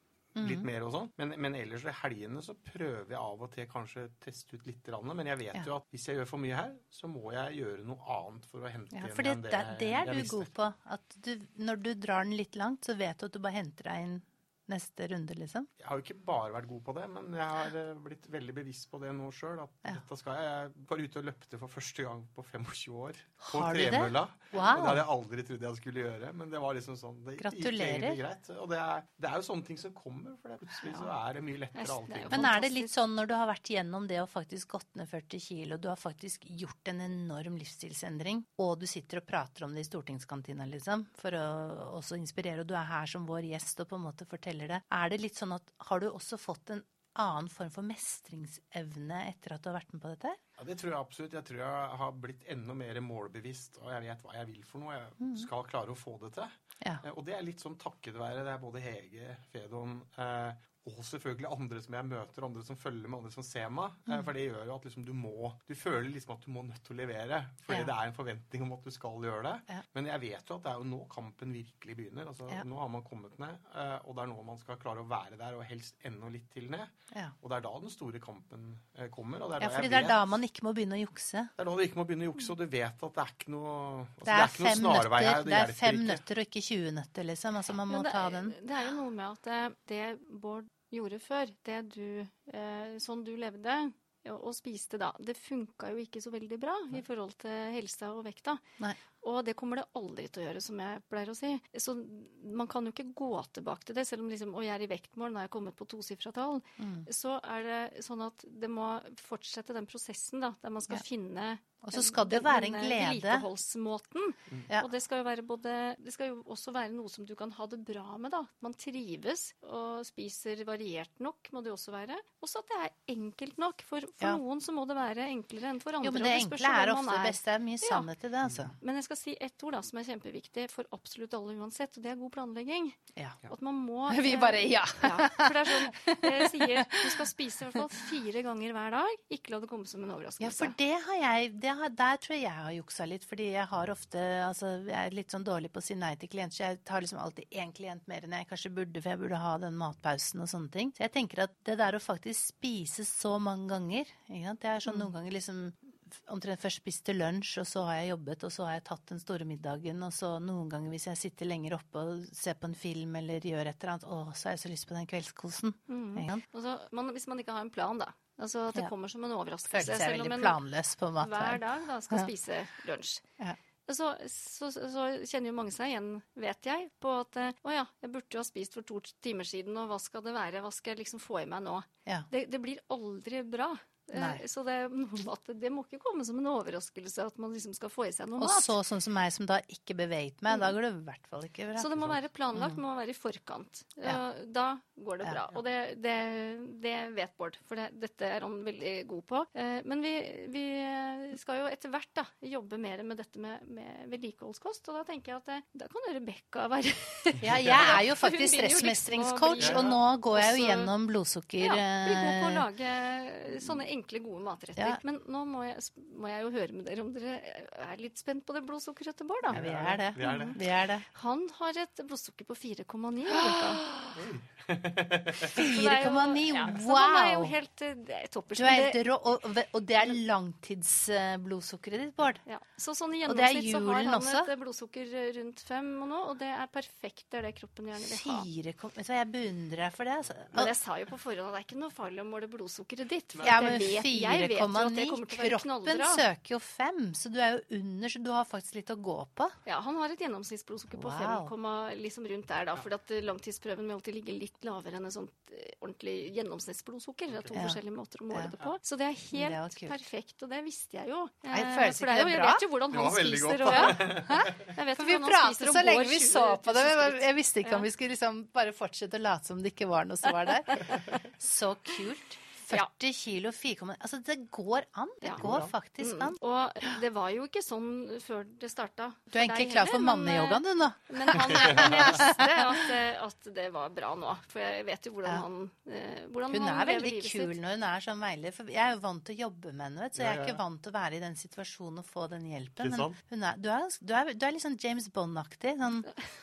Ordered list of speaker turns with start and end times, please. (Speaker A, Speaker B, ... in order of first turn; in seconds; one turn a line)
Speaker A: 0.3-0.7
Speaker B: 0.4-10.5
Speaker A: 8.9-15.7
Speaker B: 15.8-32.5
Speaker A: 23.4-25.0
Speaker A: 27.4-28.2
Speaker C: 31.7-33.0
Speaker A: 32.3-50.4
Speaker B: 50.6-80.2
Speaker A: 55.2-55.5
Speaker A: 79.6-81.5
Speaker B: 81.6-86.2
Speaker A: 84.2-88.5
Speaker C: 87.9-98.6
Speaker C: 99.2-128.1
Speaker A: 106.8-107.1
Speaker A: 111.8-113.5
Speaker A: 126.0-128.7
Speaker C: 128.8-140.7
Speaker A: 134.1-138.0
Speaker A: 140.4-166.4
Speaker C: 165.9-170.6
Speaker A: 169.7-172.3
Speaker C: 171.2-173.2
Speaker C: 173.8-188.8
Speaker A: 184.1-184.4
Speaker A: 188.4-191.9
Speaker C: 190.5-190.7
Speaker C: 191.8-210.9
Speaker A: 207.4-212.7
Speaker B: 209.6-210.0
Speaker C: 211.6-219.6
Speaker A: 213.5-213.8
Speaker B: 219.5-220.6
Speaker A: 219.5-221.1
Speaker C: 220.2-223.8
Speaker A: 223.3-224.2
Speaker B: 224.1-225.6
Speaker A: 225.5-227.5
Speaker C: 225.5-229.0
Speaker A: 228.6-232.4
Speaker C: 232.4-238.4
Speaker A: 233.2-234.5
Speaker A: 238.0-240.7
Speaker C: 240.5-246.2
Speaker B: 243.3-243.9
Speaker A: 243.4-249.5
Speaker C: 249.7-267.9
Speaker A: 250.9-251.5
Speaker A: 257.5-257.8
Speaker A: 259.3-260.0
Speaker A: 261.5-262.6
Speaker B: 262.9-264.7
Speaker A: 263.7-276.9
Speaker C: 270.3-271.2
Speaker B: 275.4-275.7
Speaker C: 276.0-287.5
Speaker A: 279.3-282.9
Speaker B: 281.7-282.0
Speaker A: 286.5-296.1
Speaker B: 290.1-290.6
Speaker B: 292.8-293.2